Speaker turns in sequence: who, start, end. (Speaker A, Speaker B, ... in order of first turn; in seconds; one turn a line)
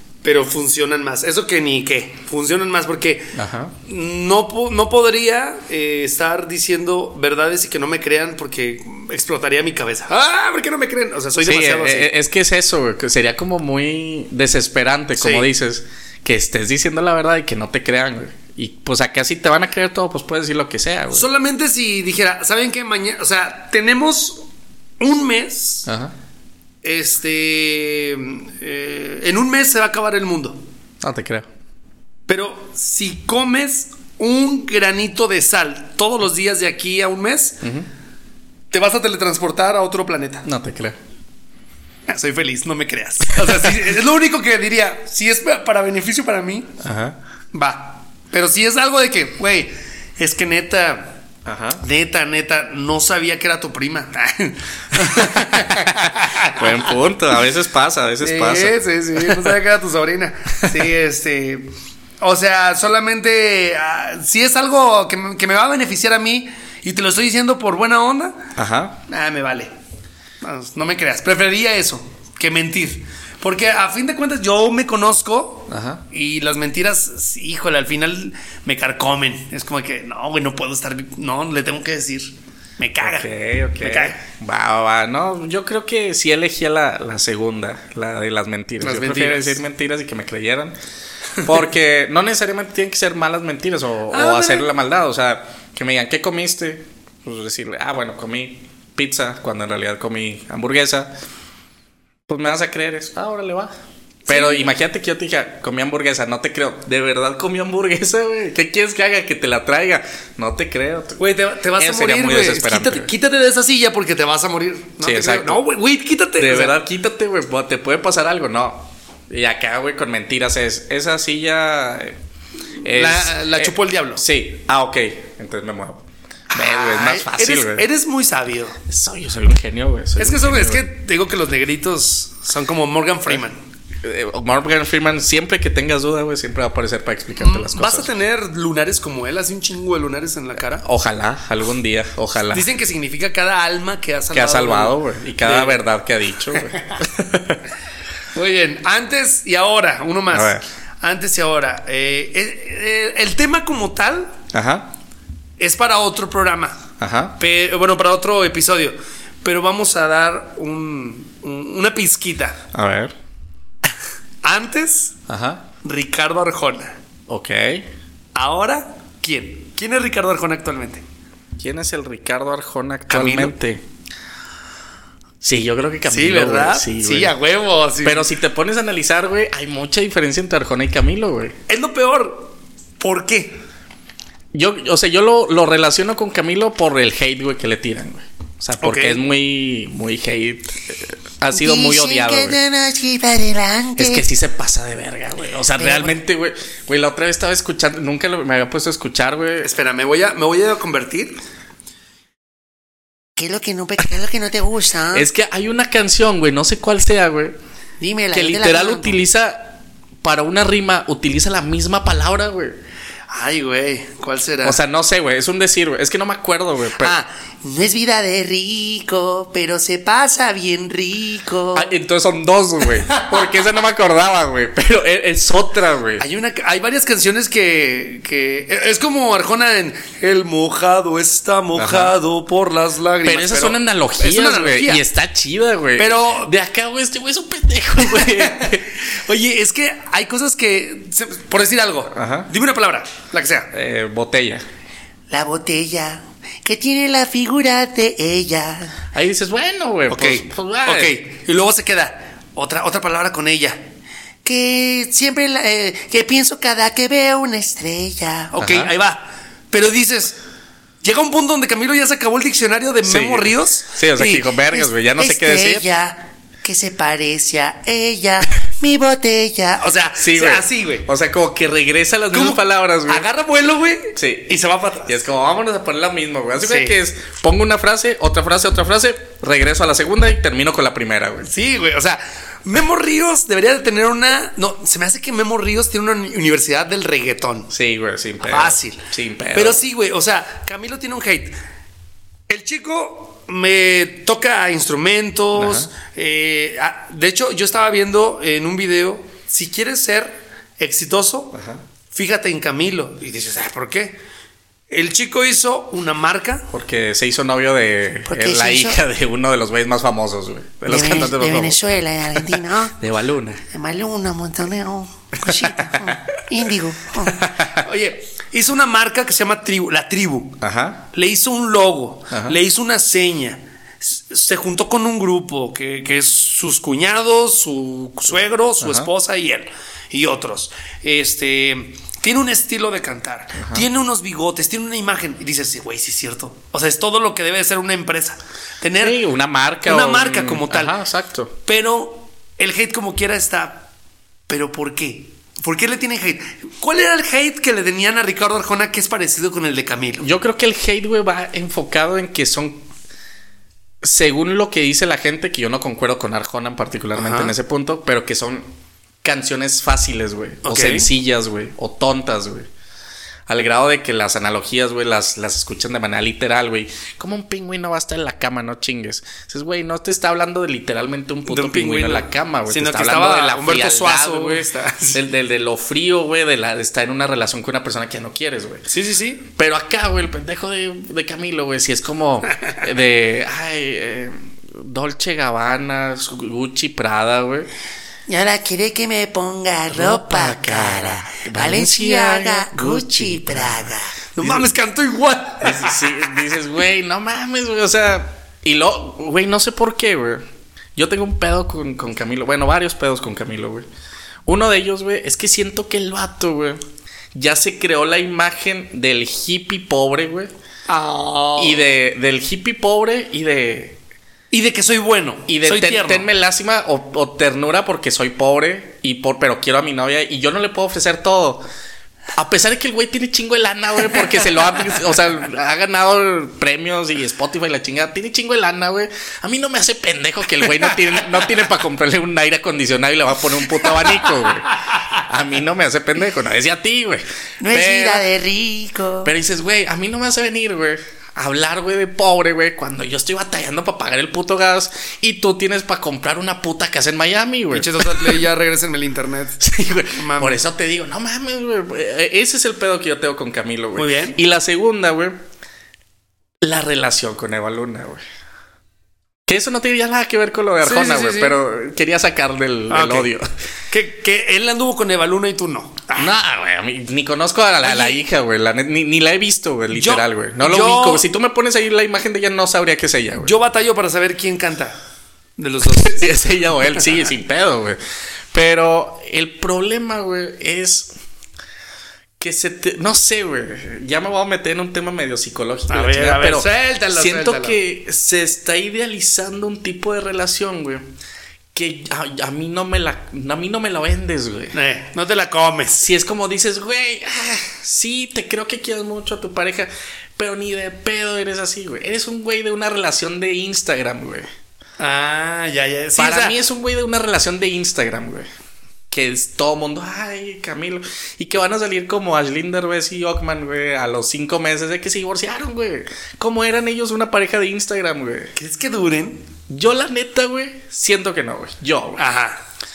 Speaker A: 0.2-12.1
Speaker B: 3.3-3.7
Speaker B: 11.4-21.3
Speaker A: 15.2-15.5
Speaker A: 21.1-24.5
Speaker A: 25.0-25.9
Speaker B: 25.9-26.1
Speaker A: 26.8-30.6
Speaker B: 31.0-31.5
Speaker A: 32.3-37.6
Speaker B: 37.6-37.9
Speaker A: 38.7-40.5
Speaker B: 40.5-41.0
Speaker A: 42.1-46.8
Speaker B: 46.8-47.2
Speaker A: 47.5-51.2
Speaker B: 51.5-51.8
Speaker A: 51.8-56.9
Speaker B: 55.0-59.5
Speaker A: 58.2-68.5
Speaker B: 68.6-69.0
Speaker A: 69.1-69.7
Speaker A: 70.4-83.3
Speaker B: 75.7-76.0
Speaker B: 83.0-90.8
Speaker A: 83.8-84.2
Speaker A: 88.8-89.6
Speaker B: 91.4-101.1
Speaker A: 94.1-94.7
Speaker B: 102.3-103.7
Speaker A: 104.3-104.7
Speaker B: 104.3-111.2
Speaker A: 111.2-116.8
Speaker B: 111.8-113.1
Speaker B: 115.0-115.6
Speaker B: 116.4-122.2
Speaker B: 122.8-127.9
Speaker A: 122.9-124.2
Speaker A: 126.5-128.8
Speaker B: 128.9-130.9
Speaker A: 130.2-133.6
Speaker B: 134.0-138.1
Speaker A: 137.4-140.8
Speaker B: 140.8-142.7
Speaker A: 142.5-145.8
Speaker B: 144.3-147.6
Speaker A: 148.3-154.4
Speaker B: 150.3-150.7
Speaker B: 154.5-154.9
Speaker A: 155.6-156.9
Speaker B: 157.0-157.4
Speaker A: 157.4-162.6
Speaker B: 162.7-163.1
Speaker A: 164.4-165.2
Speaker B: 165.3-165.7
Speaker A: 165.8-167.0
Speaker B: 167.3-167.9
Speaker A: 168.3-171.0
Speaker B: 171.6-173.8
Speaker A: 173.1-173.6
Speaker B: 175.4-177.3
Speaker A: 176.1-178.3
Speaker B: 178.0-181.6
Speaker A: 181.7-183.6
Speaker B: 184.5-192.6
Speaker A: 188.8-189.2
Speaker C: 191.5-194.3
Speaker B: 194.0-199.7
Speaker C: 195.8-196.2
Speaker A: 199.6-201.4
Speaker C: 203.4-205.3
Speaker B: 205.1-207.6
Speaker C: 208.0-209.2
Speaker B: 208.3-212.8
Speaker A: 213.3-214.8
Speaker B: 214.6-217.1
Speaker C: 217.6-221.9
Speaker B: 221.8-226.2
Speaker A: 226.2-235.0
Speaker B: 231.8-232.2
Speaker B: 233.2-238.9
Speaker A: 236.0-236.5
Speaker A: 238.1-243.7
Speaker B: 242.1-242.5
Speaker B: 243.7-244.7
Speaker C: 245.3-249.1
Speaker B: 249.1-251.2
Speaker A: 250.1-253.8
Speaker C: 254.4-258.6
Speaker A: 258.6-260.4
Speaker B: 258.6-258.9
Speaker A: 261.0-264.5
Speaker B: 263.0-265.9
Speaker C: 264.7-269.9
Speaker A: 269.8-271.1
Speaker B: 270.2-273.3
Speaker A: 272.3-275.2
Speaker B: 274.2-281.5
Speaker A: 276.6-277.0
Speaker A: 281.4-287.7
Speaker B: 287.7-289.8
Speaker A: 288.4-291.6
Speaker A: 292.5-301.6
Speaker B: 295.5-295.9
Speaker B: 301.5-301.8
Speaker A: 302.1-304.2
Speaker A: 304.9-306.7
Speaker B: 306.7-313.6
Speaker C: 308.3-309.0
Speaker C: 310.9-313.0
Speaker C: 313.7-317.4
Speaker B: 315.5-316.2
Speaker B: 317.2-317.8
Speaker A: 317.8-320.6
Speaker B: 320.6-321.1
Speaker A: 321.1-339.2
Speaker B: 322.3-322.6
Speaker B: 328.8-329.1
Speaker B: 333.6-333.9
Speaker B: 339.0-341.6
Speaker A: 339.8-340.9
Speaker A: 341.7-343.9
Speaker A: 344.5-350.3
Speaker B: 350.2-352.9
Speaker B: 354.0-358.7
Speaker A: 357.2-357.5
Speaker B: 359.2-362.7
Speaker A: 360.6-361.1
Speaker B: 363.5-378.9
Speaker A: 371.5-375.2
Speaker A: 378.9-379.5
Speaker B: 379.5-387.7
Speaker C: 388.3-394.1
Speaker B: 389.9-394.7
Speaker A: 394.4-396.2
Speaker B: 395.6-403.9
Speaker B: 404.5-406.8
Speaker B: 407.3-410.5
Speaker A: 410.9-411.9
Speaker B: 411.6-414.0
Speaker A: 414.5-416.3
Speaker B: 415.5-421.7
Speaker B: 422.4-438.3
Speaker C: 437.6-439.3
Speaker B: 439.2-448.4
Speaker A: 447.7-450.6
Speaker B: 449.6-455.4
Speaker A: 453.9-454.4
Speaker B: 456.6-458.2
Speaker B: 459.5-463.5
Speaker A: 460.8-461.6
Speaker A: 462.9-463.3
Speaker A: 463.9-466.3
Speaker B: 466.1-473.6
Speaker A: 467.8-468.2
Speaker A: 469.9-471.2
Speaker A: 473.4-474.9
Speaker A: 475.6-476.4
Speaker B: 476.0-478.0
Speaker B: 478.5-481.1
Speaker B: 482.4-491.0
Speaker A: 485.9-487.8
Speaker B: 491.7-494.8
Speaker A: 494.7-496.1
Speaker B: 496.0-504.5
Speaker A: 505.0-506.6
Speaker B: 506.2-508.5
Speaker B: 509.1-518.5
Speaker A: 518.6-519.5
Speaker B: 519.7-522.2
Speaker A: 522.2-522.6